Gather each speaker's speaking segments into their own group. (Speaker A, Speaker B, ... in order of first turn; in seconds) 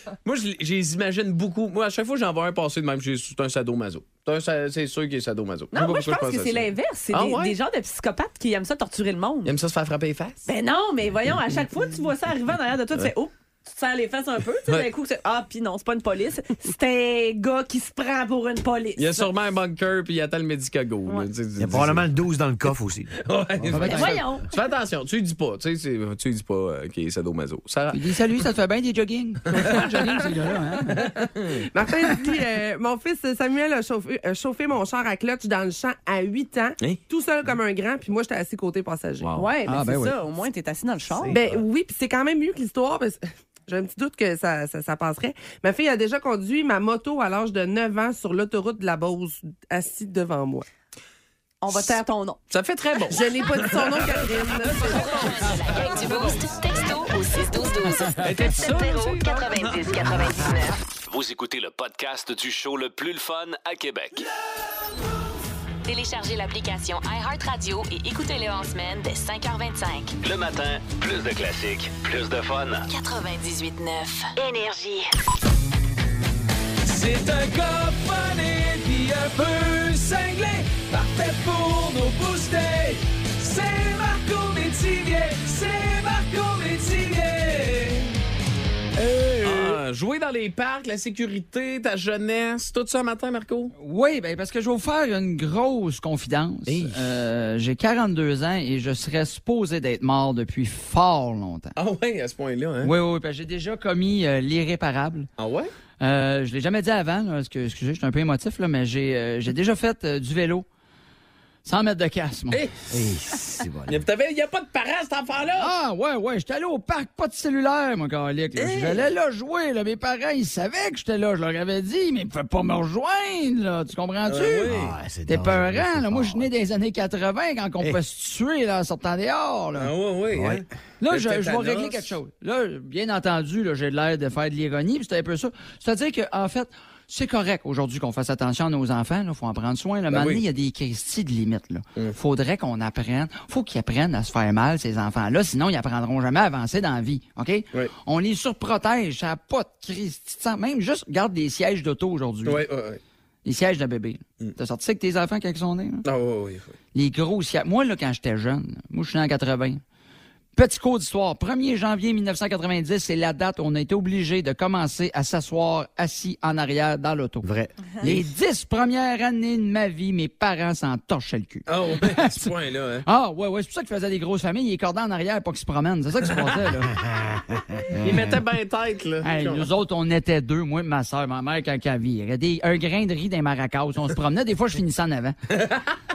Speaker A: 0.2-7.6, 9.4-10.5, 19.0-22.1, 23.2-28.1, 29.6-29.8, 30.9-31.7, 52.5-54.1, 55.5-56.4, 58.2-60.1, 76.8-88.0, 89.0-93.7, 96.7-97.0, 101.8-102.9, 105.4-105.7, 113.9-115.7, 118.6-119.0, 124.3-124.9, 129.8-132.2, 140.1-140.4, 152.4-153.0, 156.1-156.7, 171.7-173.1, 178.0-179.7, 185.5-185.9
Speaker B: 5.7-9.5, 10.4-19.3, 23.9-24.5, 39.3-41.4, 51.6-52.4
Speaker C: 21.6-23.9, 112.9-114.0, 124.7-126.5, 130.3-130.6, 167.4-168.2
Speaker D: 23.7-24.1, 27.9-31.1, 39.7-40.1, 93.8-101.7, 102.8-105.3, 106.0-110.7, 111.7-112.6, 115.6-124.7, 125.3-129.9, 131.0-152.7, 153.4-156.1, 156.9-159.8, 160.6-167.5, 168.0-172.5, 173.1-176.9, 179.2-185.4
Speaker E: 31.7-39.4, 41.3-50.7, 53.1-55.6
Speaker F: 55.6-60.8, 65.8-70.2, 72.9-75.1
Speaker G: 61.1-64.2, 70.2-72.9